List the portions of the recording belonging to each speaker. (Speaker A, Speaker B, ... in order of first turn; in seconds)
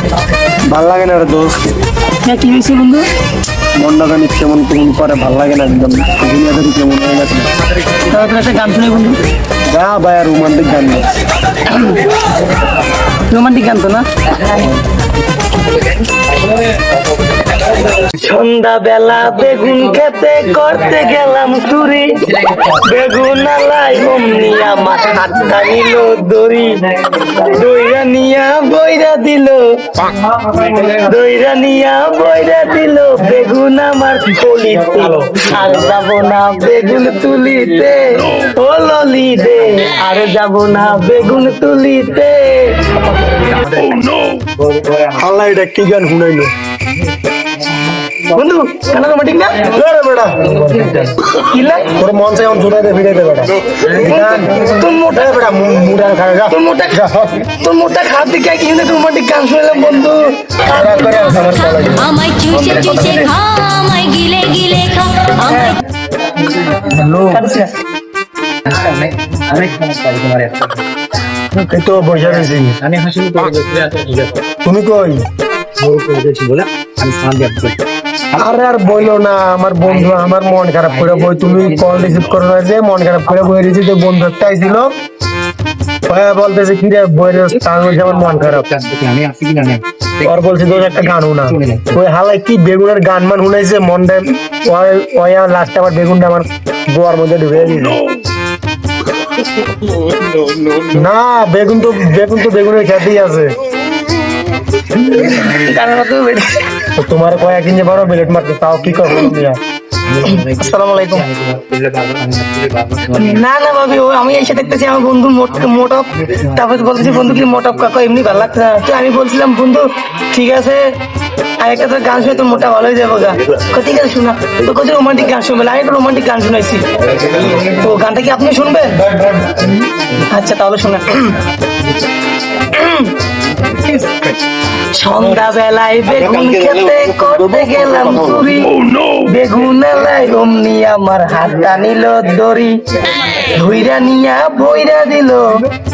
Speaker A: 0.7-1.5, 3.8-7.5, 9.7-11.0, 45.1-46.5, 49.7-51.1, 51.9-57.5, 60.7-62.9, 67.0-67.4, 71.5-72.8, 74.6-75.2, 78.4-84.9, 86.1-88.7, 90.2-98.0, 100.6-103.5, 106.9-109.6, 129.0-129.7, 136.1-138.5
Speaker B: 2.2-3.0, 8.1-9.2, 11.7-12.0, 13.3-14.0, 18.1-29.6, 30.6-42.9, 48.3-49.7, 51.4-51.9, 54.0-55.4, 56.5-57.0, 57.5-61.4, 65.4-65.7, 67.1-67.7, 105.0-106.5, 110.2-111.3, 113.1-120.8, 121.6-126.8, 127.6-129.0, 130.2-131.3, 132.7-133.1, 134.9-142.8, 143.5-145.4
Speaker C: 43.5-45.1, 68.6-70.8, 72.3-74.3, 75.8-77.8, 81.0-82.0, 88.0-90.2, 91.5-91.9, 110.1-113.4
Speaker D: 61.4-65.8